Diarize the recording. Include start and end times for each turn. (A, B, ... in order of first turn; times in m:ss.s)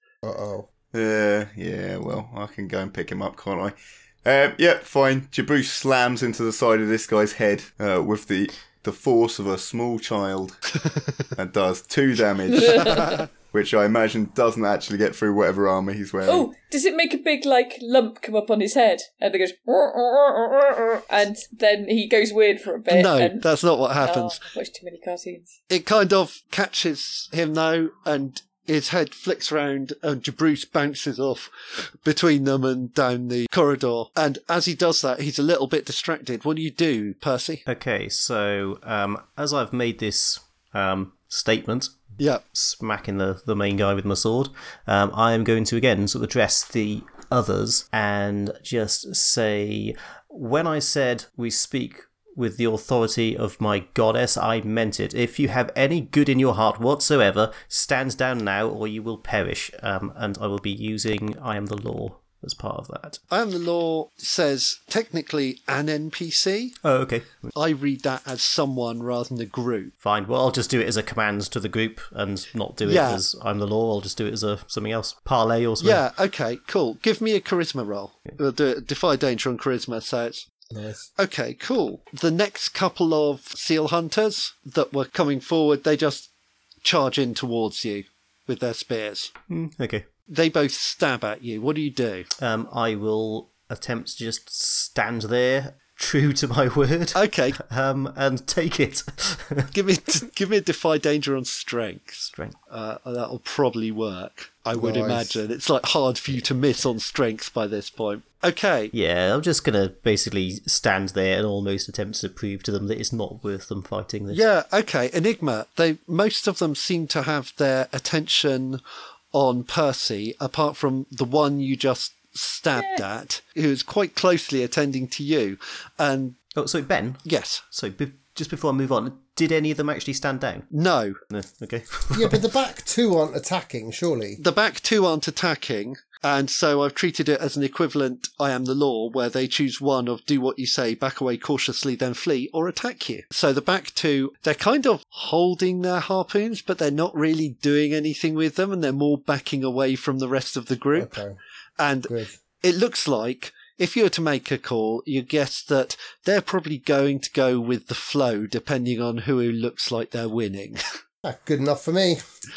0:00.2-0:00.7 A
0:00.9-0:10.6 B
0:10.8-0:11.3 C
0:11.3-0:16.5 B
0:12.5-0:13.2 D
0:12.8-0:13.3 C
0:16.2-0:23.4 D
0:22.9-0:24.4 C
0:24.0-0:25.5 D
0:25.7-0:37.6 C
0:37.7-0:42.0 E
0:42.2-0:42.4 C
0:42.5-1:03.2 E
1:03.3-1:06.8 C
1:06.8-1:07.5 E
1:07.5-1:09.9 C
1:10.0-1:16.0 E
1:12.8-1:13.2 C
1:15.8-1:20.5 C
1:20.7-1:21.1 A
1:21.2-1:26.3 C
1:26.8-1:29.3 C
1:29.5-1:30.1 E
1:30.3-1:32.3 C
1:32.4-1:39.7 E
1:37.1-1:37.6 C
1:39.7-1:48.9 C
1:42.3-1:42.6 E
1:44.7-1:45.4 A
1:48.9-1:54.4 E
1:54.3-1:58.8 C
1:59.3-2:06.4 C
2:02.8-2:03.0 D
2:06.5-2:10.7 E
2:07.2-2:07.6 C
2:10.7-2:11.2 C
2:11.3-2:12.4 E
2:12.1-2:14.4 A
2:14.4-2:31.2 C
2:30.9-2:31.4 A
2:31.8-2:40.8 C
2:32.1-2:32.4 A
2:41.2-2:42.2 A